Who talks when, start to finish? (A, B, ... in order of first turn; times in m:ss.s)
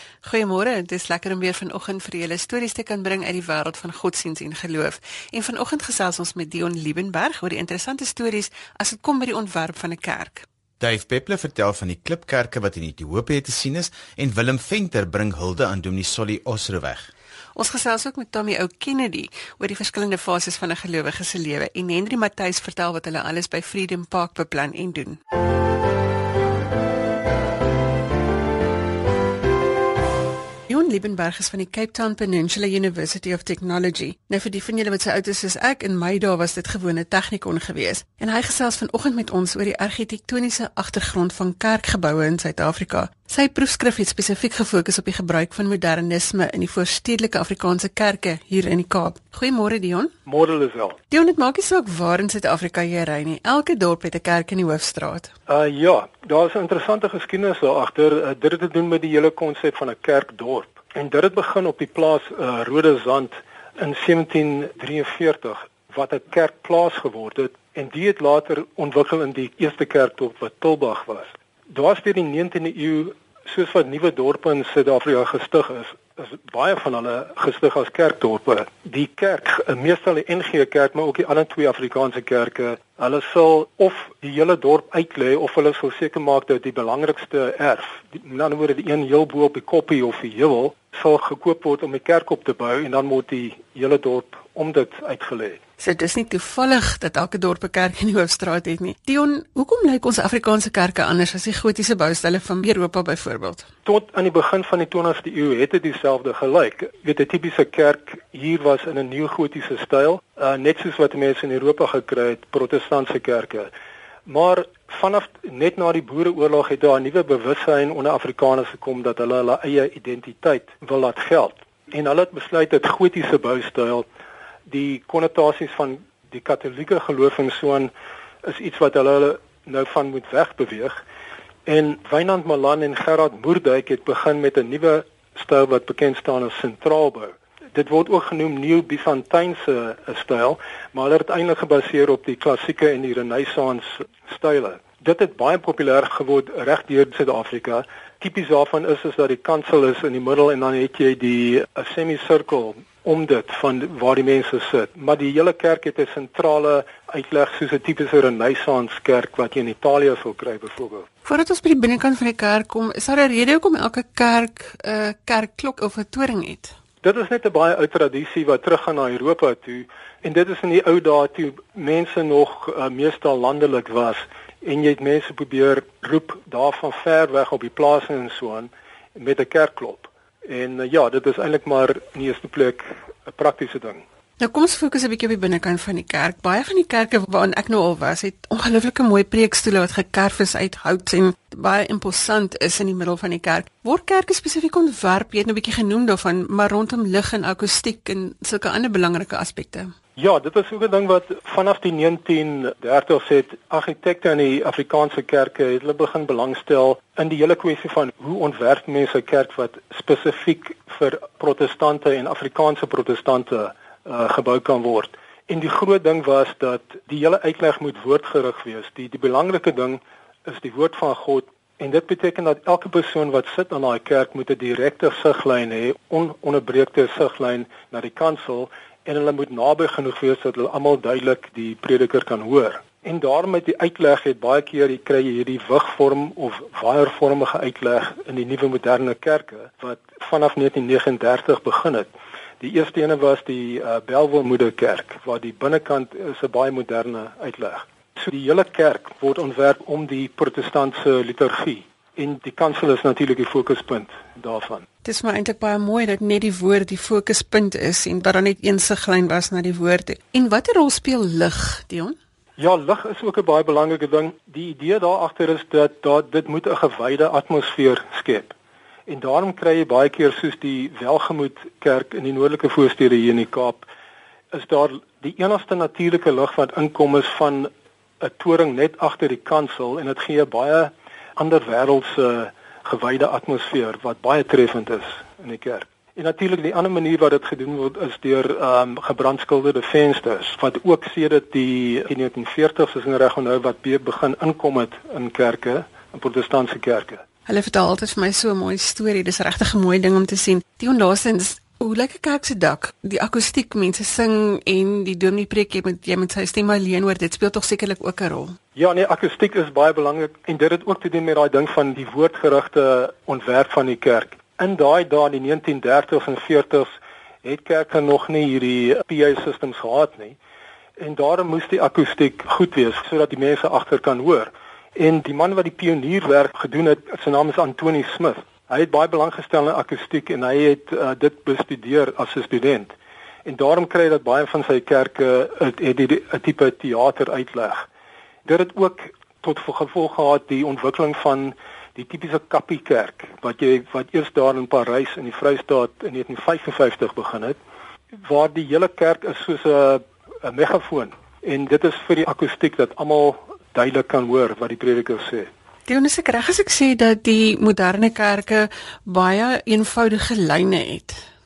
0:00.2-0:10.5 A
0:10.8-0:17.1 B
0:17.6-0:25.2 A
0:30.7-0:50.1 A
0:50.3-0:51.0 C
0:51.1-0:55.3 A
0:55.5-1:35.6 C
1:35.8-1:43.6 A
1:43.8-1:53.7 C
1:54.3-2:04.1 C
2:04.7-2:07.9 C
2:08.4-2:11.0 C
2:11.7-2:41.1 C
2:41.2-2:46.8 A
2:47.0-3:04.0 C
3:04.4-3:19.9 A
3:20.2-4:02.1 C
4:02.6-4:14.9 C
4:15.0-4:22.2 A
4:22.6-4:28.5 C
4:29.1-4:33.9 C
4:34.5-4:37.7 C
4:38.2-4:57.2 C
4:57.5-5:08.6 A
5:08.8-5:20.4 C
5:21.0-5:32.9 C
5:33.4-5:37.9 C
5:38.5-5:47.6 C
5:48.2-5:55.5 C
5:55.9-6:01.2 A